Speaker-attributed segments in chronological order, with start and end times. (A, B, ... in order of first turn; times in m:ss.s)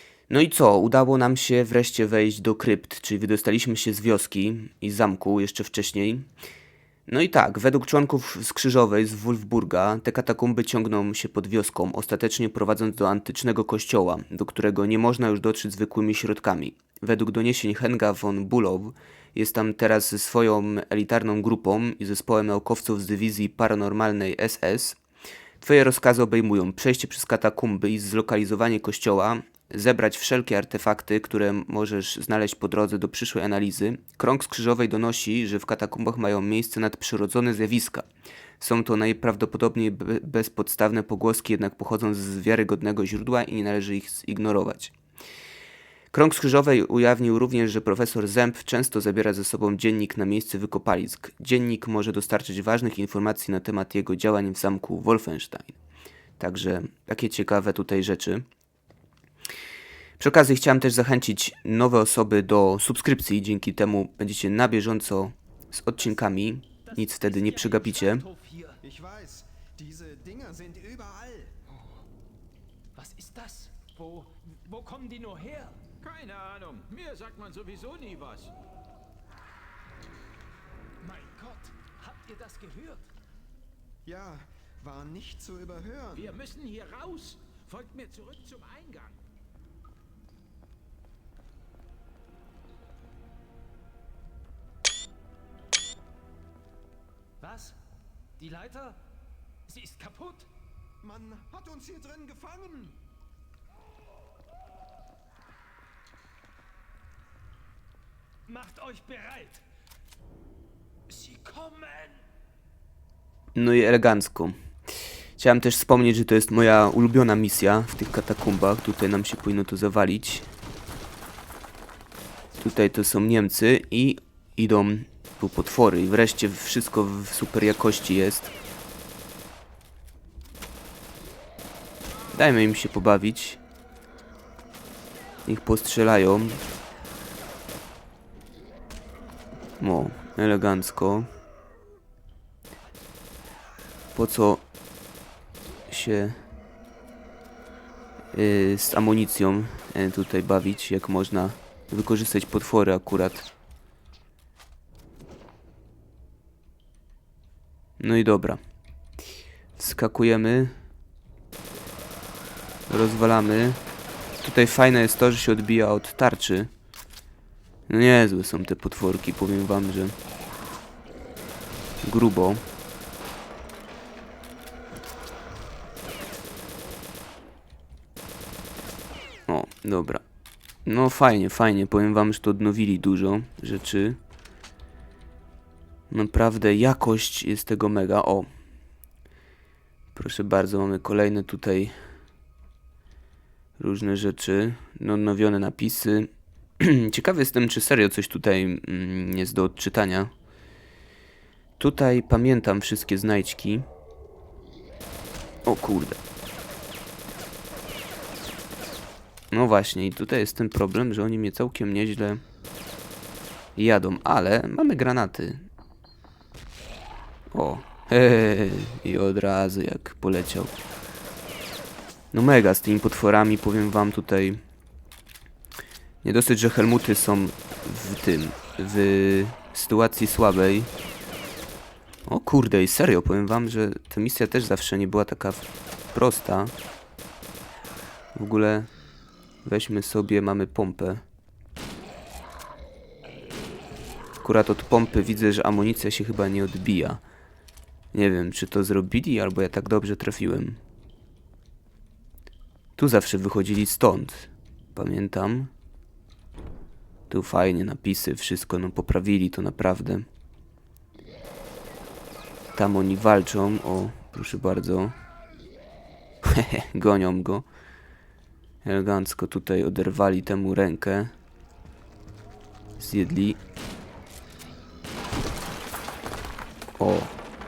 0:00.3-0:06.3 A
0:07.1-0:25.0 A
0:25.6-0:38.0 A
0:38.6-0:44.9 A
0:46.1-0:55.8 A
0:56.4-0:58.4 A
1:00.2-1:08.2 A
1:06.9-1:08.8 B
1:08.8-1:11.5 C
1:13.0-1:15.8 B
1:16.0-1:18.5 D
1:21.0-1:23.1 B
1:24.0-1:26.4 C
1:26.2-1:29.2 D
1:37.4-1:37.8 B
1:38.4-1:39.0 B
1:39.7-1:40.5 B
1:41.0-1:43.0 C
1:48.5-1:49.6 B
1:51.1-1:52.2 B
1:53.5-1:54.5 A
1:55.4-2:00.5 A
2:02.6-2:08.5 A
2:12.3-2:13.6 A
2:15.4-2:16.6 A
2:19.8-2:21.3 A
2:24.1-2:24.6 A
2:25.9-2:26.4 A
2:28.3-2:33.5 A
2:38.0-2:38.6 A
2:39.8-2:40.8 A
2:42.9-2:43.8 A
2:44.4-2:46.7 A
2:47.9-2:50.1 A
2:52.0-2:52.6 A
2:59.5-3:00.2 A
3:00.8-3:04.2 A
3:06.1-3:08.5 A
3:10.1-3:11.9 A
3:13.8-3:20.3 A
3:21.8-3:23.8 A
3:25.6-3:26.2 A
3:29.5-3:32.4 A
3:33.8-3:35.7 A
3:37.5-3:40.7 A
3:42.3-3:44.6 A
3:46.2-3:50.9 A
3:52.3-3:56.7 A
3:58.3-3:58.9 A
3:59.6-4:01.2 A
4:04.4-4:07.2 A
4:08.1-4:10.8 A
4:13.0-4:15.7 A
4:17.3-4:20.2 A
4:22.7-4:25.1 A
4:26.4-4:27.6 A
4:28.8-4:31.3 A
4:33.0-4:33.6 A
4:37.0-4:37.4 A